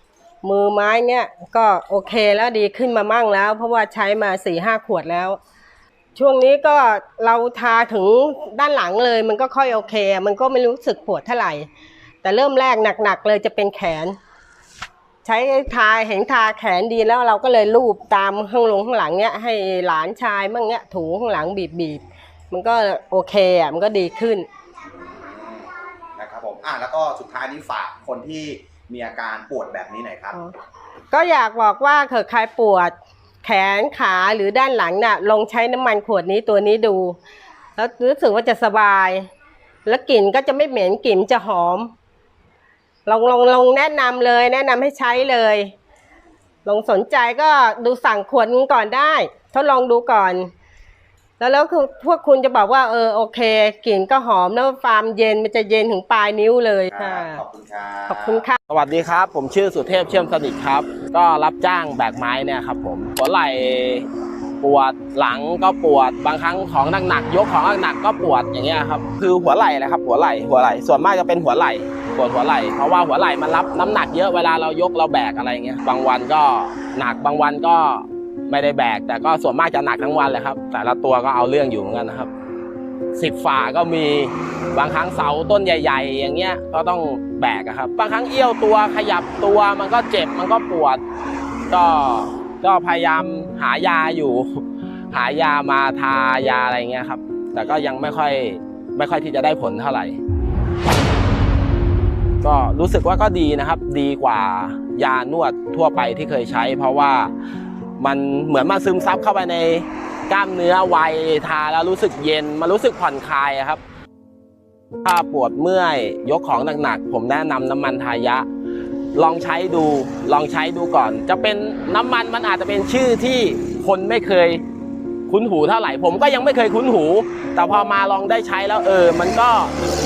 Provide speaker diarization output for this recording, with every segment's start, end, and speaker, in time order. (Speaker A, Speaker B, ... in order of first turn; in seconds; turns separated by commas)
Speaker A: 0.4-5.4, Speaker A: 6.2-11.7, Speaker A: 12.2-14.2, Speaker A: 15.2-24.5, Speaker B: 25.0-30.4, Speaker A: 31.1-37.2, Speaker A: 37.8-39.3, Speaker A: 39.9-41.9, Speaker A: 43.1-45.7, Speaker A: 46.6-50.5, Speaker A: 51.4-57.4, Speaker B: 56.9-58.4, Speaker A: 58.1-58.6, Speaker C: 58.7-64.1, Speaker C: 64.6-82.3, Speaker C: 83.1-91.0, Speaker C: 91.7-100.2, Speaker C: 102.4-107.3, Speaker C: 108.0-113.8, Speaker C: 115.0-118.5, Speaker C: 119.2-124.6, Speaker C: 125.3-129.8